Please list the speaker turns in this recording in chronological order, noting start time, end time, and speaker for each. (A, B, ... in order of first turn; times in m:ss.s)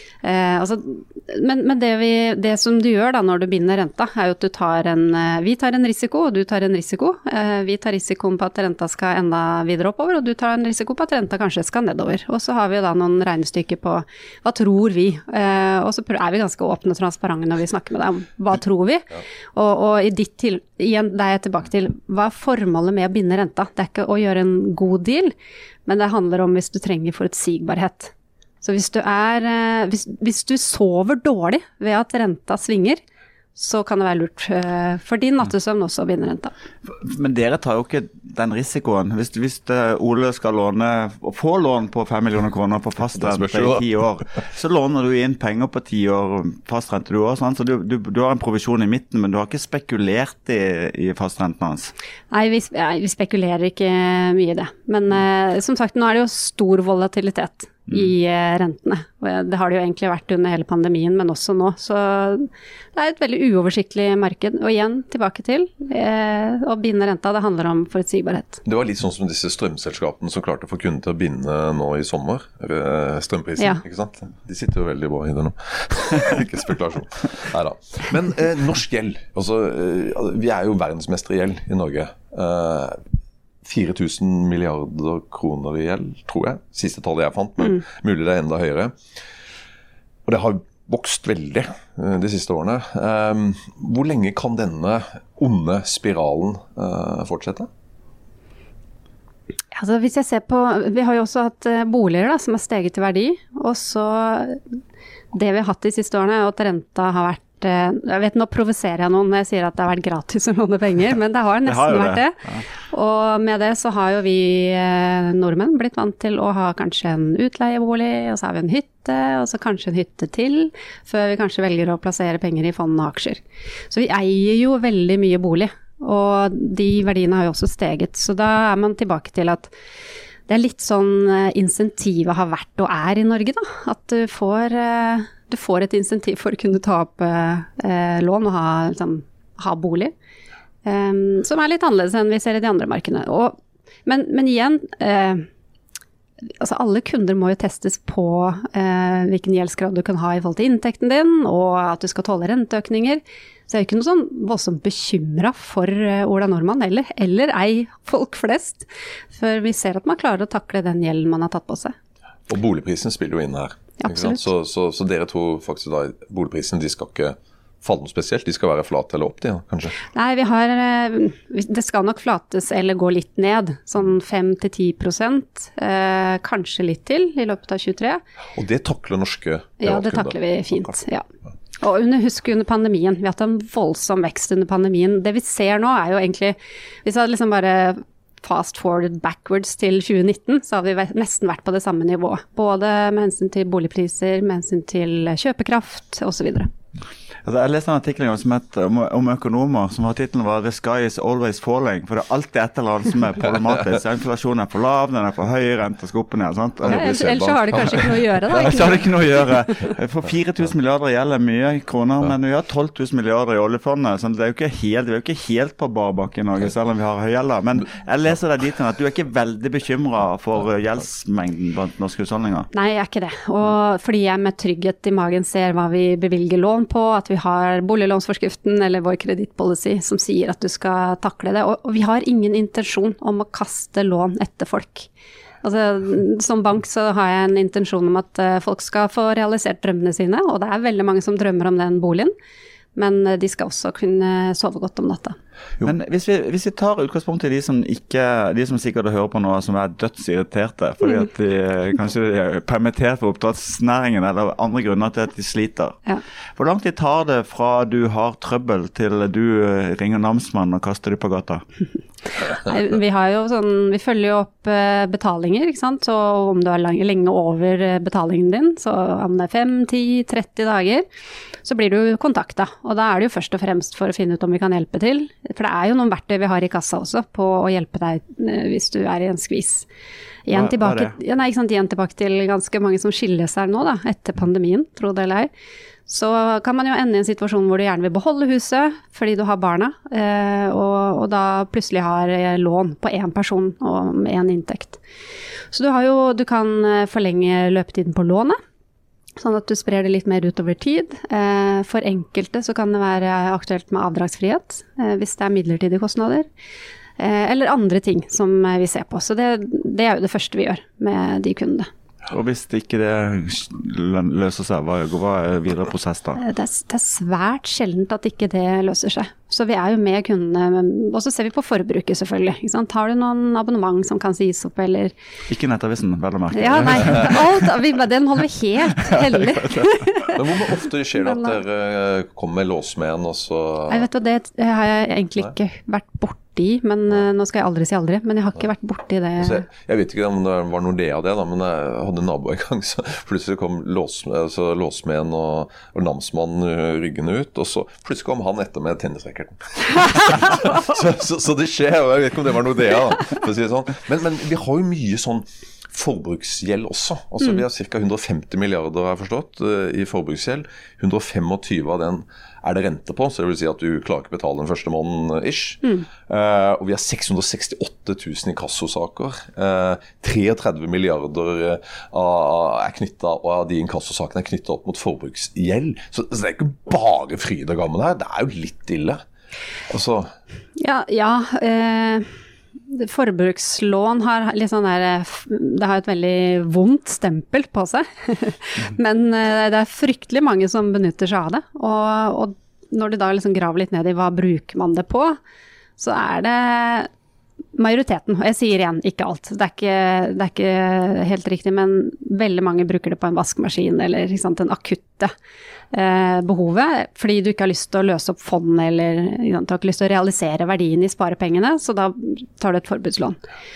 0:00.2-0:25.3 A
0:25.8-0:33.0 A
0:33.5-0:36.5 A
0:36.9-0:51.9 B
0:43.2-0:43.8 C
0:52.3-1:08.6 A
1:08.6-1:23.0 C
1:23.6-1:29.0 C
1:30.2-1:37.7 C
1:39.7-1:44.6 A
1:45.3-2:09.7 A
1:51.6-1:52.6 B
2:10.5-2:20.1 A
2:20.8-2:25.5 A
2:26.6-2:41.9 A
2:42.5-2:50.0 C
2:44.0-2:44.4 A
2:50.1-2:58.2 A
2:58.6-3:01.0 C
2:59.8-3:01.2 A
3:01.8-3:16.7 A
3:17.4-3:27.1 B
3:26.8-3:28.1 C
3:26.9-3:29.2 A
3:28.5-3:42.7 B
3:42.7-3:55.1 A
3:55.6-4:02.3 A
4:02.9-4:05.4 A
4:05.8-4:16.0 B
4:16.6-4:21.6 B
4:22.4-4:31.0 A
4:31.6-4:39.8 A
4:40.4-4:45.5 A
4:40.5-4:41.1 B
4:46.1-4:55.0 A
4:55.7-4:58.6 A
4:59.4-5:06.5 A
5:07.2-5:11.9 A
5:12.3-5:16.4 B
5:16.4-5:25.1 A
5:25.5-5:27.7 B
5:26.5-5:31.6 A
5:29.0-5:29.9 B
5:30.3-5:34.1 C
5:33.9-5:39.6 A
5:39.4-6:19.2 C
6:19.9-6:20.3 C
6:20.8-6:22.3 A
6:22.9-6:35.4 A
6:36.0-6:37.1 A
6:37.8-6:45.3 A
6:45.9-6:53.4 A